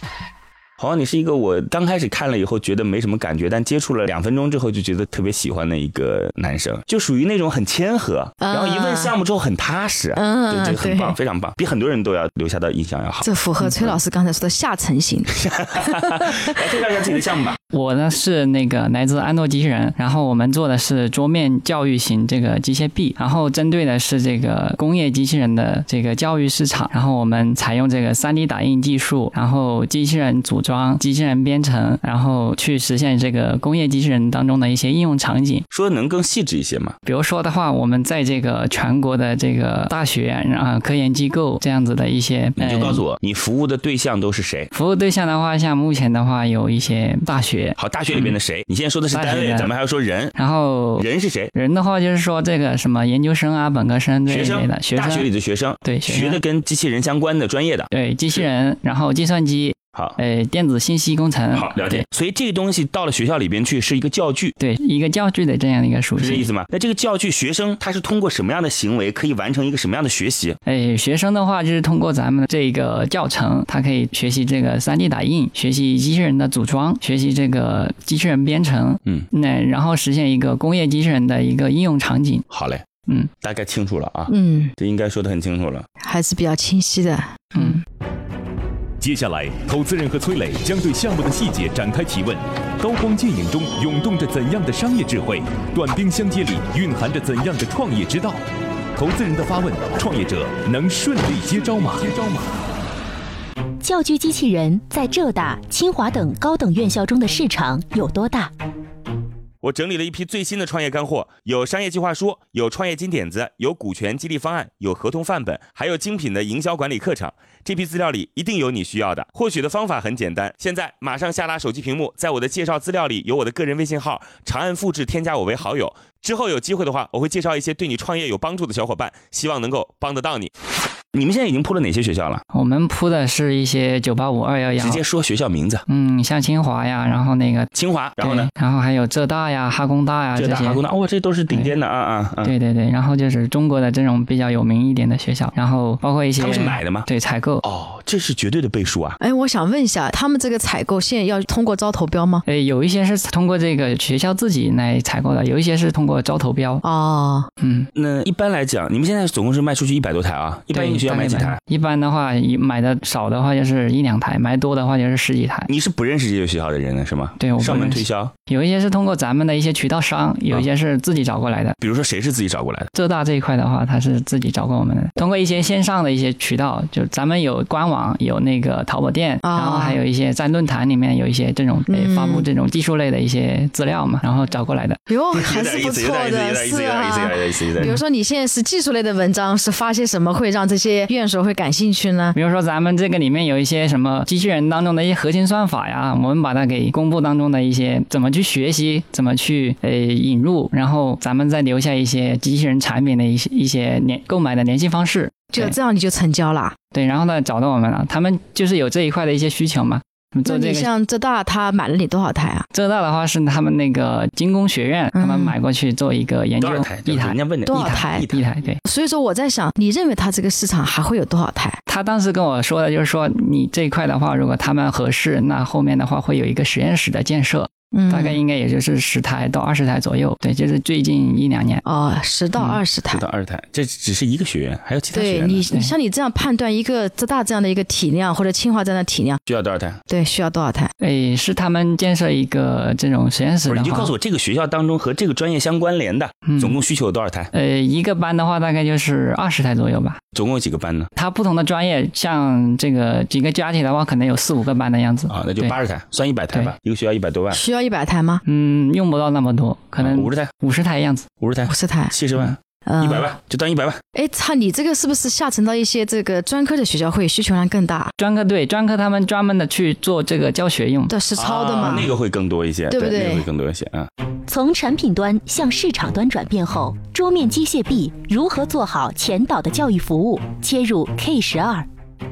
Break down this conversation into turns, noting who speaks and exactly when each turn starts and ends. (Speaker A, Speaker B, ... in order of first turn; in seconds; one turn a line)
Speaker A: 0.8-13.3
Speaker B: 8.4-9.1
Speaker B: 10.2-11.2
Speaker B: 13.2-15.9
Speaker A: 15.6-17.6
Speaker C: 17.7-35.7
Speaker A: 35.7-37.0
Speaker C: 37.0-43.0
Speaker A: 42.6-44.7
Speaker C: 44.7-48.4
Speaker A: 47.8-50.3
Speaker C: 49.1-49.7
Speaker C: 50.4-55.3
Speaker A: 51.0-51.5
Speaker A: 54.3-58.5
Speaker C: 55.8-56.4
Speaker C: 57.9-62.0
Speaker A: 61.5-64.6
Speaker C: 64.6-66.5
Speaker A: 66.2-70.6
Speaker C: 70.7-82.5
Speaker A: 82.5-82.8
Speaker A: 83.4-85.9
Speaker B: 84.3-84.7
Speaker B: 86.0-87.8
Speaker D: 89.0-98.4
Speaker D: 99.0-102.5
Speaker E: 103.8-108.5
Speaker A: 109.6-130.5
Speaker A: 131.1-132.4
Speaker C: 132.5-135.0
Speaker A: 134.8-135.8
Speaker C: 135.9-140.8
Speaker A: 137.7-138.5
Speaker A: 140.4-142.5
Speaker C: 142.4-147.6
Speaker A: 146.4-147.1
Speaker A: 147.6-149.2
Speaker B: 149.2-152.4
Speaker C: 152.5-156.8
Speaker B: 156.8-157.5
Speaker C: 157.6-157.9
Speaker A: 157.9-161.6
Speaker C: 160.7-165.7
Speaker A: 165.7-168.3
Speaker C: 167.4-171.8
Speaker A: 171.8-172.9
Speaker C: 172.9-185.0
Speaker B: 179.4-180.0
Speaker B: 181.9-182.5
Speaker B: 185.1-192.3
Speaker A: 185.3-188.0
Speaker C: 192.3-205.8
Speaker B: 205.5-206.8
Speaker C: 206.9-210.9
Speaker B: 210.5-212.7
Speaker C: 212.7-218.8
Speaker B: 215.1-215.6
Speaker A: 216.6-218.4
Speaker B: 217.7-218.2
Speaker B: 218.8-221.8
Speaker C: 221.9-231.8
Speaker B: 227.9-228.4
Speaker B: 231.8-233.2
Speaker A: 233.1-235.6
Speaker B: 235.1-239.4
Speaker A: 239.5-240.0
Speaker B: 240.1-240.9
Speaker C: 241.0-244.1
Speaker A: 243.7-247.5
Speaker C: 246.4-246.8
Speaker C: 247.5-250.2
Speaker A: 250.3-251.1
Speaker C: 251.2-255.8
Speaker A: 255.3-257.6
Speaker B: 257.5-258.4
Speaker C: 258.4-261.3
Speaker A: 260.0-260.5
Speaker A: 261.4-264.0
Speaker B: 261.7-262.2
Speaker B: 262.9-263.3
Speaker B: 264.1-268.1
Speaker C: 268.2-271.1
Speaker B: 271.1-272.1
Speaker A: 271.4-274.1
Speaker B: 272.9-273.5
Speaker E: 274.5-281.9